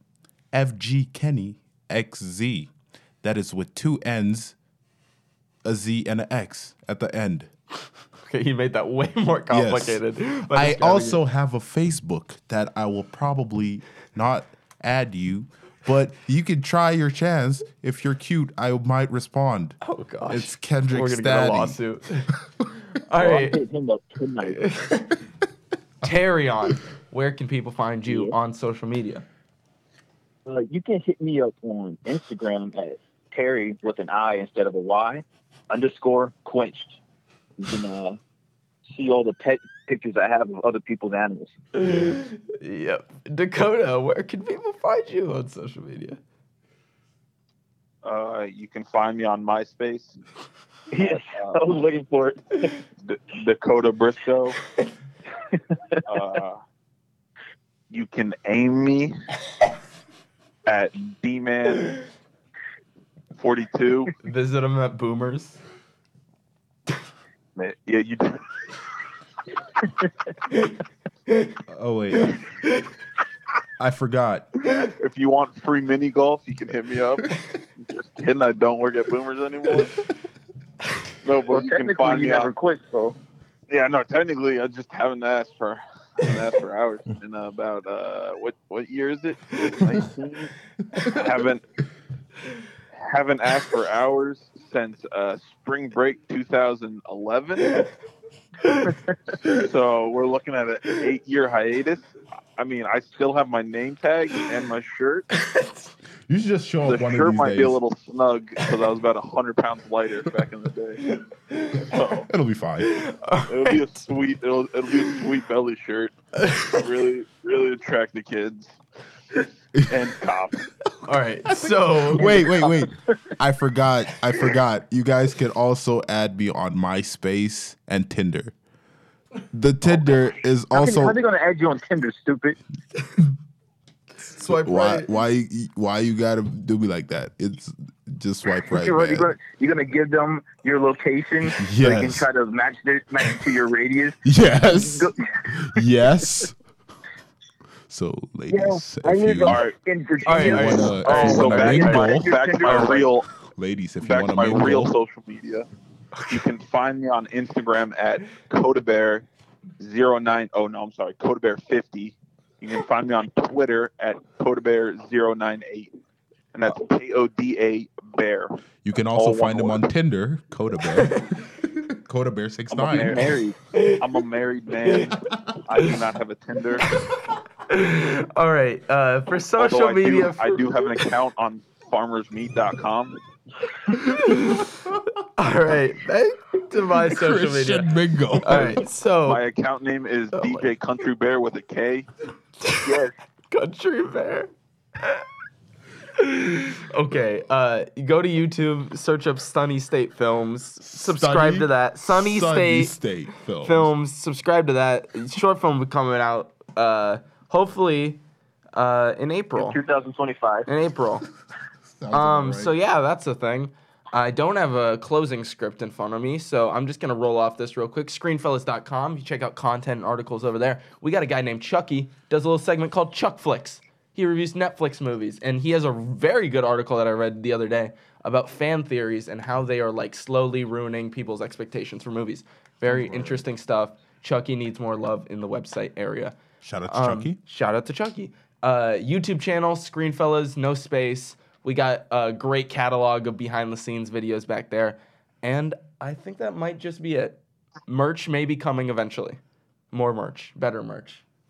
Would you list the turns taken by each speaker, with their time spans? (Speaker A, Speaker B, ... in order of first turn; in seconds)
Speaker A: 0.5-2.7, 3.2-4.5, 5.6-7.5, 9.5-21.8, 71.7-72.4, 73.8-74.5, 106.3-107.8, 112.3-113.0, 121.5-128.6, 129.5-131.2, 134.5-139.3, 141.5-142.3, 144.2-146.5, 147.9-149.6, 150.3-153.0, 153.5-154.9, 168.8-173.4, 184.2-184.6, 186.9-188.8, 200.8-203.9, 211.9-212.7, 232.8-233.4, 236.6-237.4
Speaker B: 8.2-11.2, 19.8-22.4, 23.0-23.6, 24.4-25.2, 26.0-29.2, 41.8-46.2, 64.2-65.6, 71.3-71.6, 72.3-72.9, 98.6-99.0, 105.3-105.9, 111.0-112.0, 112.8-113.8, 116.4-116.8, 121.1-122.5, 134.2-135.1, 150.2-152.2, 173.7-174.1, 177.7-181.1, 183.9-184.7, 185.4-189.4, 190.3-190.7, 192.6-195.2, 196.2-202.9, 203.6-208.2, 208.8-209.8, 210.7-211.2, 212.1-236.4, 236.9-249.4, 249.9-251.2
Speaker C: 23.2-24.6, 28.1-28.4, 30.5-37.0, 37.6-38.2, 38.9-41.5, 50.9-52.7, 81.5-83.2, 122.2-122.8, 130.7-132.6, 138.7-145.8, 148.5-153.1, 172.9-173.3, 192.8-193.1, 209.6-210.7
Speaker D: 48.0-50.2, 51.0-51.8, 53.0-54.6, 56.1-56.6, 57.9-59.1, 60.7-62.0, 63.4-64.1, 67.6-68.4, 75.0-80.0, 81.2-82.5, 83.7-91.6, 92.9-97.8, 99.4-105.3, 106.8-111.0, 111.8-112.3, 113.5-118.8, 119.8-120.7, 149.4-149.8, 151.2-153.3, 154.0-155.7, 156.3-159.2, 159.8-165.9, 166.5-168.6, 169.1-169.8, 172.7-176.9, 179.6-183.2, 189.3-192.1